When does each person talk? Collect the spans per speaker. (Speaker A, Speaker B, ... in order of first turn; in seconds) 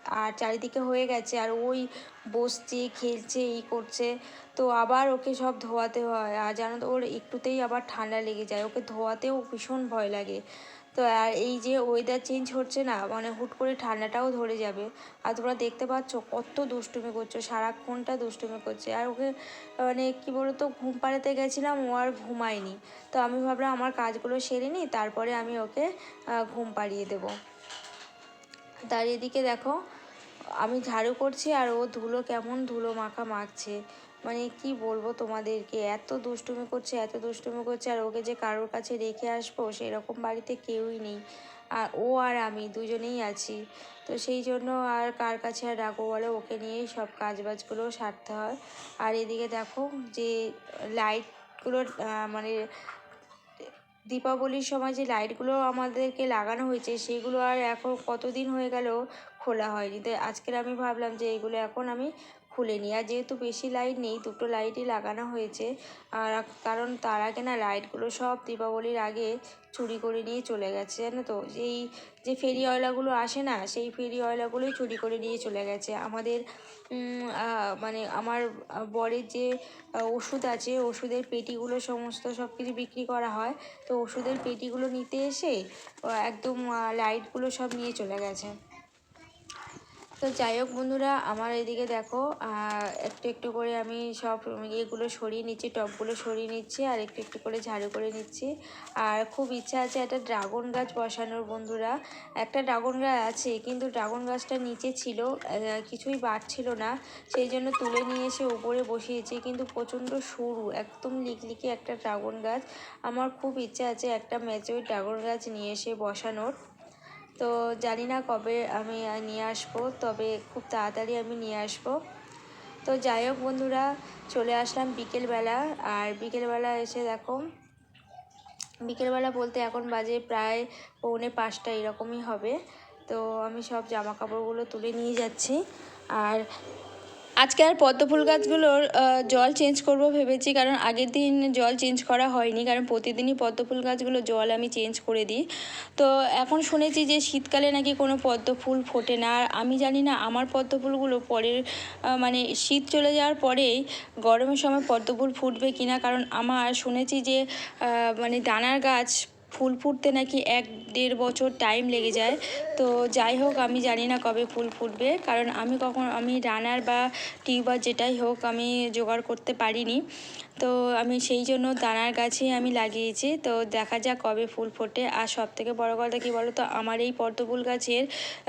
Speaker A: 0.2-10.4, 10.9-19.3, 19.9-25.9, 26.5-27.3, 28.9-29.8, 30.6-33.8, 34.3-41.2, 41.8-50.3, 51.0-52.5, 54.1-76.4, 76.9-78.4, 79.0-79.5, 80.1-85.6, 86.3-88.5, 90.2-98.5, 99.0-116.5, 117.4-122.0, 122.8-127.4, 128.9-132.6, 133.1-135.6, 136.2-136.4, 137.4-145.4, 146.0-151.6, 152.2-157.4, 158.2-170.0, 170.6-178.0